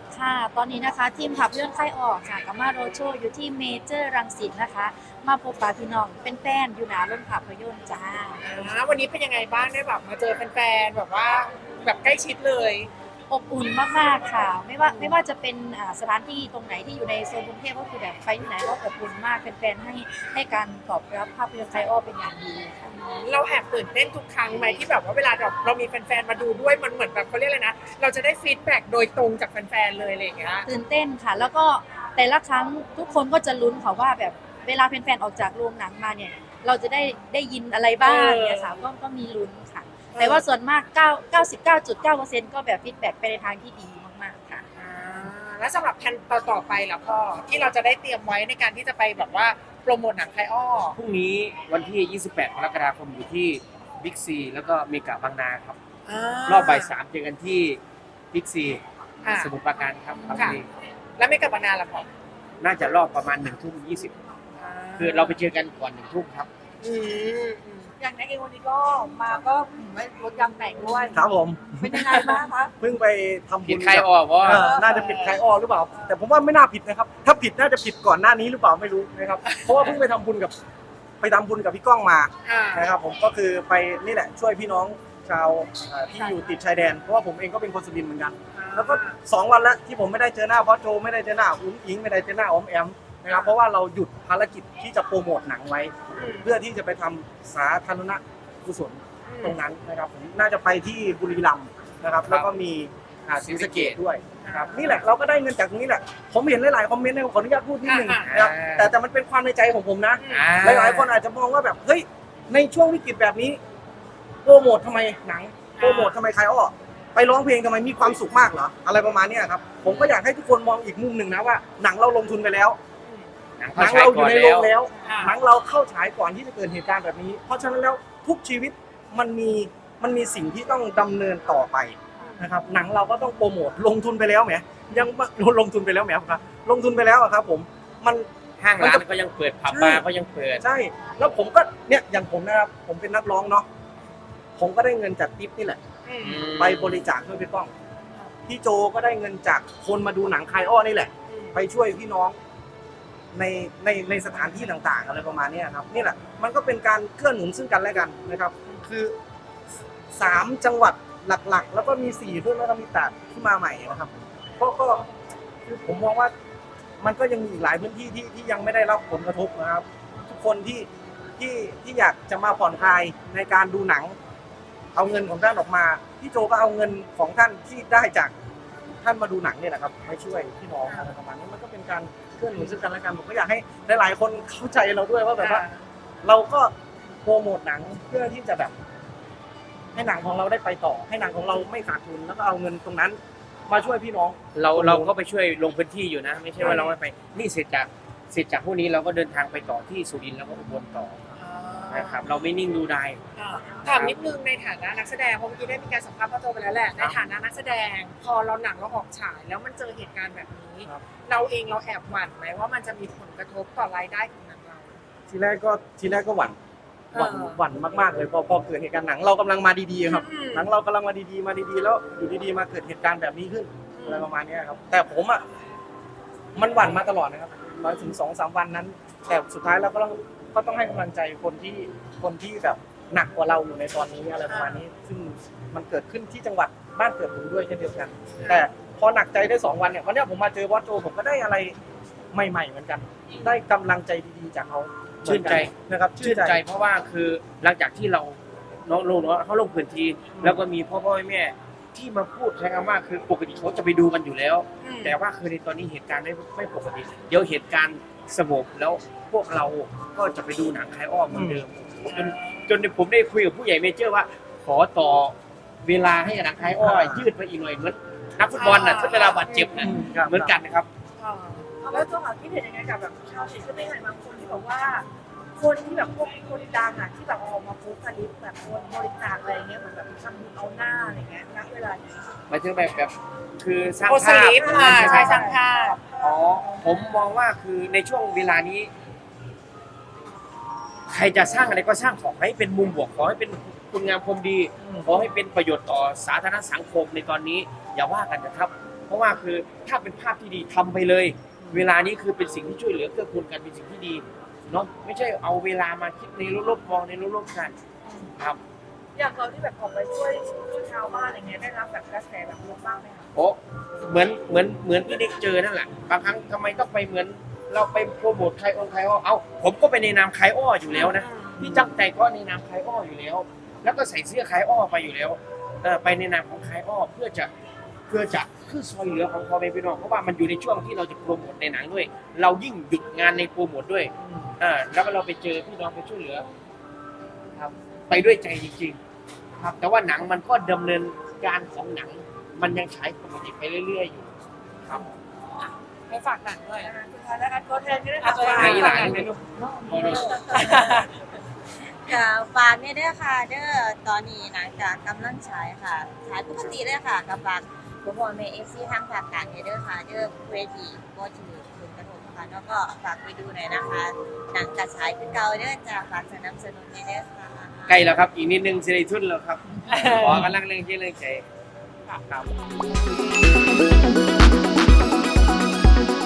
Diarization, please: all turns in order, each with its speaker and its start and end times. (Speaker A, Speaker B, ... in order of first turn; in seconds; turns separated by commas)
Speaker A: 0.1-8.7, Speaker B: 8.4-12.9, Speaker A: 13.3-22.9, Speaker B: 14.8-15.2, Speaker B: 22.9-30.7, Speaker A: 30.7-44.6, Speaker B: 38.0-38.8, Speaker B: 40.2-40.4, Speaker B: 44.8-51.0, Speaker C: 51.0-55.8, Speaker B: 56.1-57.0, Speaker C: 56.5-57.8, Speaker C: 58.3-58.8, Speaker B: 59.2-59.5, Speaker C: 59.4-60.7, Speaker B: 60.3-60.6, Speaker B: 61.2-62.1, Speaker C: 62.6-64.2, Speaker B: 64.6-65.4, Speaker C: 65.0-66.5, Speaker B: 66.8-67.9, Speaker D: 68.0-71.2, Speaker E: 71.1-80.6, Speaker D: 71.8-72.7, Speaker B: 72.0-72.3, Speaker C: 73.6-74.7, Speaker B: 74.5-75.3, Speaker D: 74.5-75.0, Speaker B: 79.5-80.0, Speaker E: 81.2-113.6, Speaker B: 82.5-82.9, Speaker B: 86.1-86.4, Speaker B: 88.5-89.2, Speaker B: 93.3-93.6, Speaker B: 96.2-96.5, Speaker B: 99.3-99.6, Speaker C: 103.3-104.0, Speaker B: 104.4-105.0, Speaker B: 107.8-108.3, Speaker C: 108.3-108.9, Speaker B: 110.2-110.5, Speaker C: 110.3-111.1, Speaker E: 114.4-122.8, Speaker B: 115.8-116.2, Speaker B: 119.8-120.2, Speaker B: 123.0-123.3, Speaker C: 123.6-124.8, Speaker E: 123.8-139.0, Speaker B: 125.0-125.4, Speaker B: 132.2-132.5, Speaker C: 138.6-140.6, Speaker E: 139.7-140.1, Speaker E: 140.6-143.7, Speaker E: 144.6-145.8, Speaker B: 146.1-146.5, Speaker C: 146.2-147.1, Speaker E: 146.5-147.7, Speaker E: 148.5-152.4, Speaker B: 151.3-151.6, Speaker E: 153.3-159.2, Speaker E: 160.1-165.1, Speaker E: 165.7-166.3, Speaker E: 167.0-174.2, Speaker E: 174.9-178.3, Speaker E: 179.0-185.7, Speaker B: 185.4-185.8, Speaker E: 186.2-188.7, Speaker E: 189.9-195.1, Speaker C: 194.6-201.3, Speaker B: 196.6-197.0, Speaker B: 201.4-202.2, Speaker C: 201.9-203.2, Speaker B: 203.4-215.0, Speaker C: 203.8-204.2, Speaker E: 215.3-216.6, Speaker B: 217.1-217.6, Speaker E: 217.1-225.4, Speaker B: 220.1-220.7, Speaker B: 223.9-224.3, Speaker E: 226.6-241.8, Speaker B: 234.5-234.8, Speaker B: 238.4-238.7, Speaker E: 242.3-246.6, Speaker B: 243.3-243.6, Speaker C: 245.2-270.9, Speaker B: 254.8-255.2, Speaker E: 261.3-261.6, Speaker B: 262.1-262.7, Speaker E: 266.8-267.3, Speaker B: 268.5-270.1, Speaker E: 269.8-270.6, Speaker B: 271.2-272.1, Speaker D: 271.8-282.0, Speaker C: 282.5-285.6, Speaker B: 284.0-286.1, Speaker D: 284.5-285.6, Speaker C: 286.2-288.9, Speaker D: 286.6-287.0, Speaker C: 291.1-307.8, Speaker E: 294.8-295.1, Speaker D: 309.2-313.3, Speaker C: 313.4-327.5, Speaker B: 320.9-321.7, Speaker C: 328.1-336.5, Speaker E: 334.2-334.5, Speaker C: 337.6-339.0, Speaker C: 339.6-344.3, Speaker B: 346.1-346.9, Speaker D: 346.8-351.0, Speaker B: 348.2-349.3, Speaker C: 348.5-350.2, Speaker F: 349.5-350.9, Speaker B: 350.5-351.1, Speaker F: 351.8-368.2, Speaker C: 367.9-371.4, Speaker B: 369.9-370.5